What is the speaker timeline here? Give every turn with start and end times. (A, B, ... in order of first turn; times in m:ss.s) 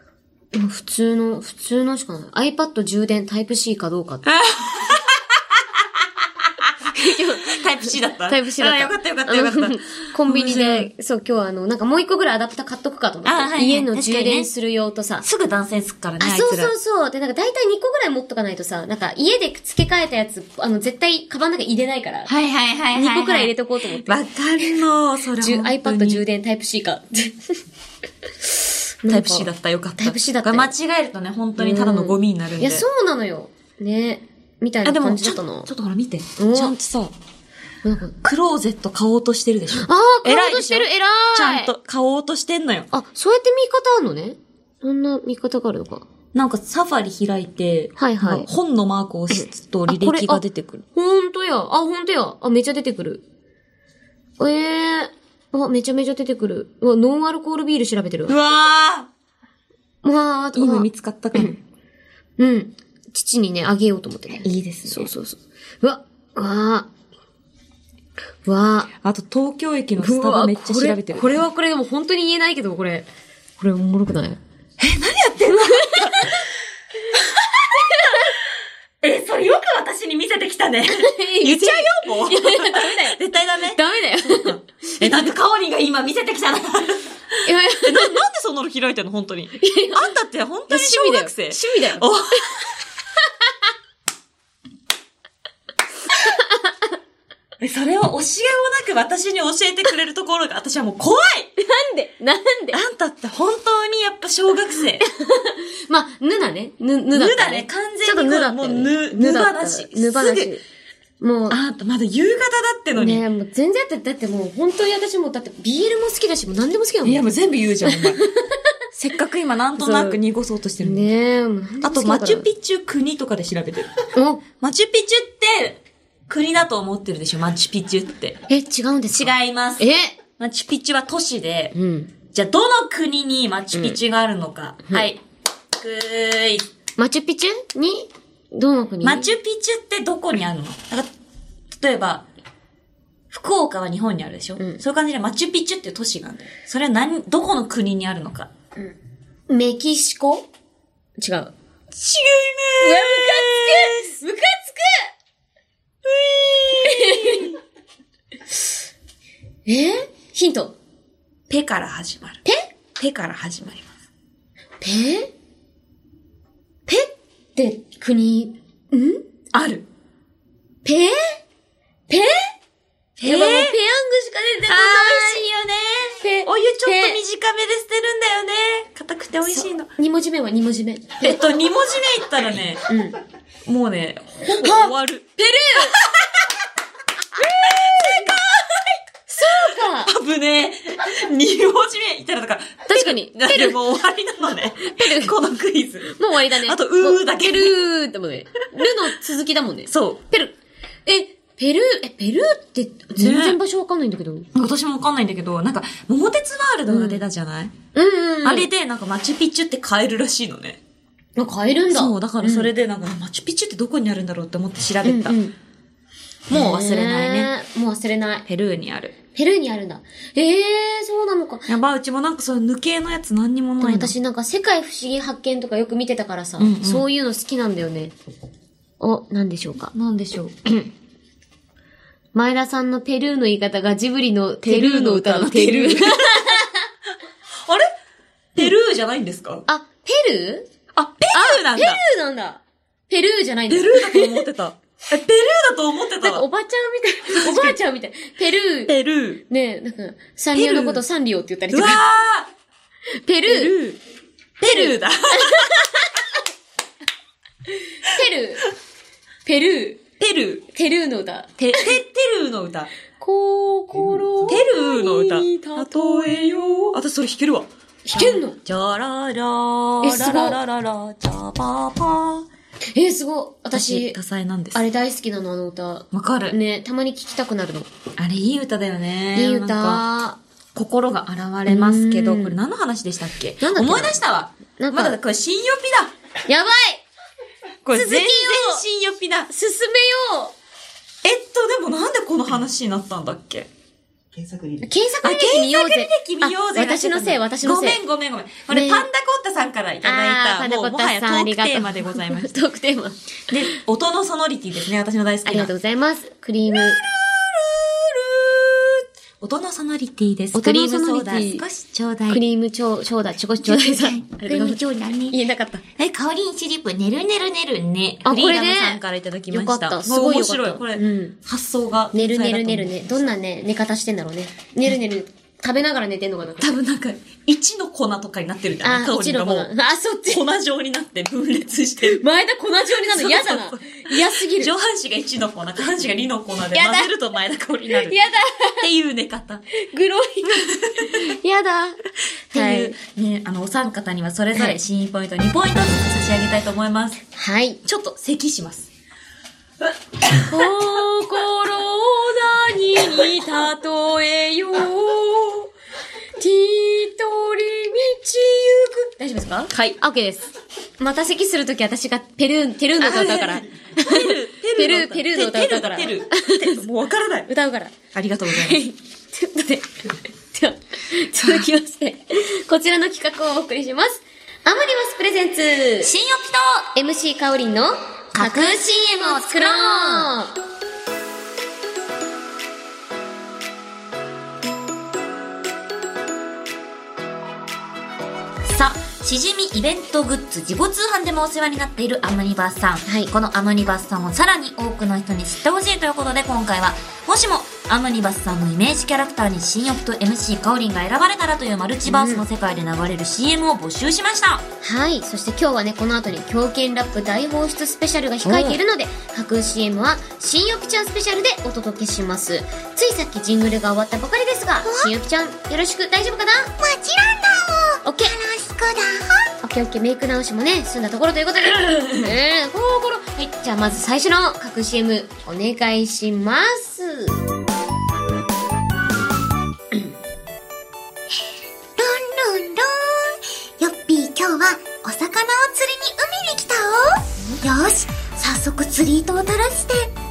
0:00.5-0:04.2 A
0:04.2-0:10.9 B
0:06.8-0:15.2 A
0:13.2-0:14.5 B
0:15.2-0:16.7 B
0:16.2-0:22.3 A
0:22.2-0:26.2 B
0:22.9-0:24.7 A
0:25.4-0:27.6 A
0:29.0-0:30.7 A
0:29.1-0:32.8 B
0:31.6-0:35.7 A
0:34.8-0:37.1 B
0:36.4-0:36.7 A
0:37.8-0:38.2 A
0:38.2-0:42.9 B
0:39.7-0:41.7 A
0:42.9-0:46.0 A
0:46.3-0:50.8 B
0:48.0-0:48.5 A
0:49.3-0:50.4 A
0:50.9-0:53.2 A
0:54.4-0:58.3 A
0:58.3-0:59.1 B
1:00.0-1:01.6 A
1:00.5-1:01.6 B
1:02.4-1:06.9 A
1:04.4-1:05.2 B
1:08.4-1:08.9 A
1:09.0-1:11.4 B
1:10.0-1:13.1 A
1:13.6-1:14.4 A
1:14.8-1:16.4 B
1:15.6-1:16.3 A
1:17.1-1:18.3 B
1:17.8-1:18.3 A
1:19.0-1:32.8 B
1:20.9-1:23.2 A
1:23.7-1:25.0 A
1:27.4-1:28.2 A
1:29.6-1:30.1 A
1:30.7-1:32.1 A
1:36.2-1:36.7 A
1:37.6-1:41.5 B
1:41.6-1:42.8 A
1:42.7-1:45.1 B
1:45.0-1:50.6 A
1:47.1-1:50.5 B
1:51.2-1:51.6 A
1:51.5-1:53.2 B
1:52.9-1:57.3 A
1:57.0-1:58.2 B
1:57.8-1:58.6 A
1:58.9-2:01.1 B
1:59.8-2:00.2 A
2:00.8-2:02.5 A
2:01.8-2:03.9 B
2:04.1-2:04.4 A
2:04.6-2:08.4 B
2:08.5-2:10.2 A
2:09.2-2:09.9 B
2:10.4-2:11.7 B
2:11.7-2:12.1 A
2:12.3-2:15.2 B
2:13.7-2:14.0 A
2:15.7-2:16.7 B
2:17.0-2:19.3 A
2:19.0-2:21.1 B
2:21.7-2:22.2 B
2:23.3-2:28.5 B
2:29.5-2:30.5 A
2:31.2-2:31.5 A
2:31.9-2:34.2 B
2:32.8-2:35.1 A
2:36.0-2:37.6 B
2:36.8-2:37.5 A
2:39.6-2:40.8 A
2:41.5-2:42.4 B
2:43.0-2:43.8 B
2:44.8-2:45.3 A
2:46.9-2:49.2 A
2:49.5-2:49.8 B
2:50.8-2:51.4 A
2:52.1-2:52.5 A
2:53.2-2:53.8 B
2:53.2-2:55.4 A
2:54.7-2:59.9 B
2:56.2-2:57.2 A
2:59.4-3:01.5 A
3:01.2-3:02.8 B
3:02.9-3:03.2 A
3:03.6-3:05.2 B
3:04.6-3:06.0 A
3:05.8-3:06.4 B
3:07.4-3:08.3 A
3:07.4-3:08.8 B
3:09.3-3:10.1 A
3:09.6-3:17.8 B
3:12.9-3:13.8 A
3:14.8-3:15.3 A
3:16.0-3:20.5 A
3:19.9-3:20.2 B
3:21.0-3:24.5 A
3:23.2-3:23.6 B
3:24.5-3:27.7 B
3:26.9-3:27.2 A
3:27.9-3:28.7 A
3:28.4-3:30.8 B
3:31.4-3:32.7 A
3:31.9-3:35.4 B
3:35.0-3:35.5 A
3:36.5-3:37.5 B
3:36.5-3:38.4 A
3:38.4-3:39.1 B
3:39.3-3:41.7 A
3:41.7-3:44.1 B
3:43.8-3:48.1 A
3:46.6-3:47.0 B
3:49.0-3:49.9 A
3:49.9-3:50.5 B
3:52.3-3:56.8 A
3:54.6-3:56.6 B
3:57.6-3:57.9 B
3:58.5-3:59.6 B
3:59.7-4:00.7 A
4:00.9-4:02.0 B
4:01.3-4:04.4 A
4:03.7-4:06.4 B
4:06.2-4:08.9 A
4:07.3-4:07.8 B
4:08.9-4:09.4 B
4:09.5-4:12.0 A
4:10.5-4:11.0 B
4:11.7-4:12.5 B
4:13.2-4:13.8 A
4:13.4-4:14.0 B
4:14.6-4:16.0 B
4:14.7-4:16.2 A
4:18.0-4:18.7 A
4:19.4-4:20.0 A
4:20.2-4:20.6 B
4:20.7-4:21.9 A
4:21.6-4:22.9 B
4:23.2-4:26.8 A
4:24.4-4:32.5 B
4:28.0-4:28.6 A
4:30.0-4:30.6 A
4:32.9-4:34.2 A
4:33.7-4:34.8 B
4:34.7-4:37.9 A
4:36.1-4:36.6 B
4:38.2-4:40.0 B
4:39.3-4:40.4 A
4:40.7-4:46.1 B
4:41.6-4:42.6 A
4:43.6-4:44.2 A
4:44.8-4:45.2 A
4:46.5-4:47.0 A
4:47.8-4:49.5 B
4:47.9-4:48.8 A
4:49.5-4:50.5 A
4:51.2-4:53.7 B
4:54.8-4:58.0 A
4:55.2-5:02.5 B
4:58.7-4:59.0 A
5:00.0-5:03.2 A
5:03.5-5:05.7 B
5:05.4-5:07.0 A
5:06.7-5:12.4 B
5:10.5-5:11.6 A
5:12.3-5:15.8 A
5:13.6-5:15.4 B
5:16.0-5:23.2 B
5:18.2-5:21.4 A
5:22.1-5:26.7 A
5:26.6-5:29.7 B
5:28.8-5:30.4 A
5:30.3-5:32.2 B
5:32.0-5:34.7 A
5:33.0-5:38.2 B
5:36.7-5:37.1 A
5:37.9-5:38.8 A
5:38.8-5:39.6 B
5:39.7-5:43.0 A
5:40.4-5:41.3 B
5:42.5-5:47.2 B
5:44.5-5:44.8 A
5:47.4-5:47.8 A
5:47.8-5:48.9 B
5:50.4-5:55.7 A
5:50.4-5:50.6 B
5:56.4-6:00.5 A
5:59.7-6:00.0 B
6:01.0-6:06.8 A
6:03.0-6:07.5 B
6:07.5-6:08.0 A
6:08.1-6:08.8 B
6:08.5-6:10.0 A
6:10.5-6:16.1 A
6:11.4-6:11.7 B
6:16.0-6:16.9 B
6:16.9-6:20.6 A
6:18.3-6:20.3 B
6:28.6-6:44.6 B
6:33.0-6:33.3 A
6:42.0-6:42.4 A
6:44.8-6:56.7 A
6:48.4-6:48.8 B
6:54.8-6:55.1 C
6:56.8-6:59.5 C
6:58.0-6:58.3 A
6:59.6-7:07.4 A
7:01.7-7:02.3 B
7:12.0-7:20.1 C